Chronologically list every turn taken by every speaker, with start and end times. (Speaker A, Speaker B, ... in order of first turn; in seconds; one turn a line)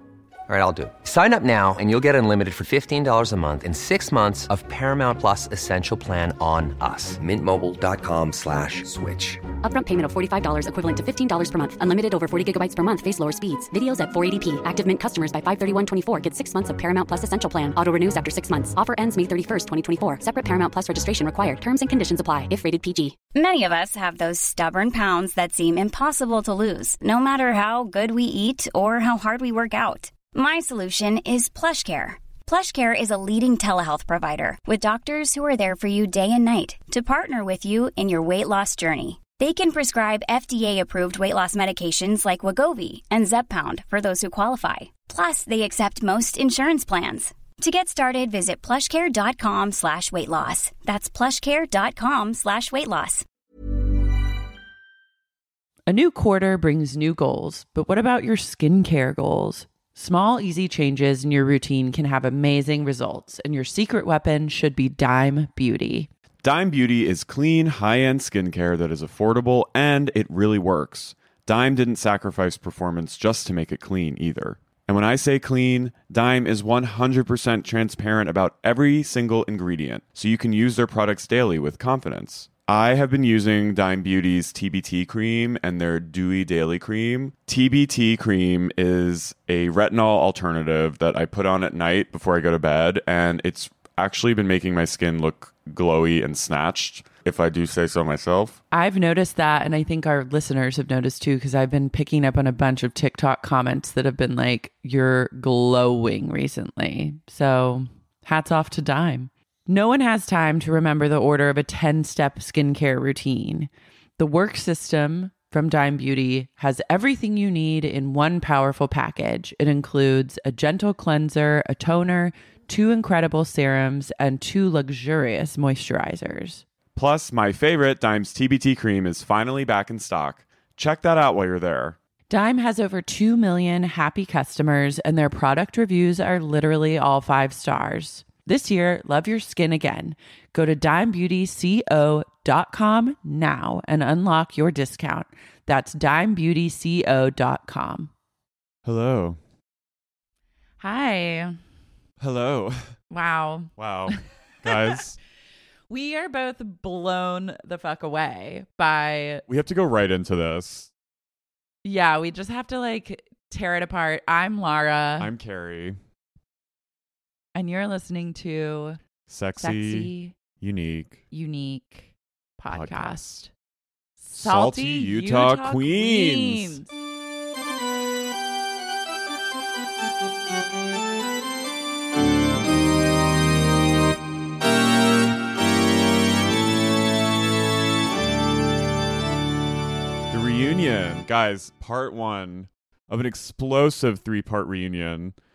Speaker A: 0.5-9.5
Speaker B: 9.5-23.2
Speaker C: 23.3-53.3
Speaker D: 55.9-66.1
Speaker E: 66.4-98.5
Speaker D: 98.7-126.6
Speaker E: 127.0-132.0
Speaker D: 132.3-148.1
Speaker E: 148.8-149.4
Speaker D: 150.8-151.6
Speaker E: 152.2-153.0
Speaker D: 153.1-155.0
Speaker E: 153.8-155.2
Speaker D: 155.9-159.4
Speaker E: 159.5-160.9
Speaker D: 161.8-165.3
Speaker E: 165.2-166.0
Speaker D: 167.6-169.0
Speaker E: 169.3-171.2
Speaker D: 169.6-170.3
Speaker D: 171.3-173.5
Speaker E: 172.7-173.4
Speaker D: 174.2-176.9
Speaker E: 174.3-176.8
Speaker E: 190.3-195.4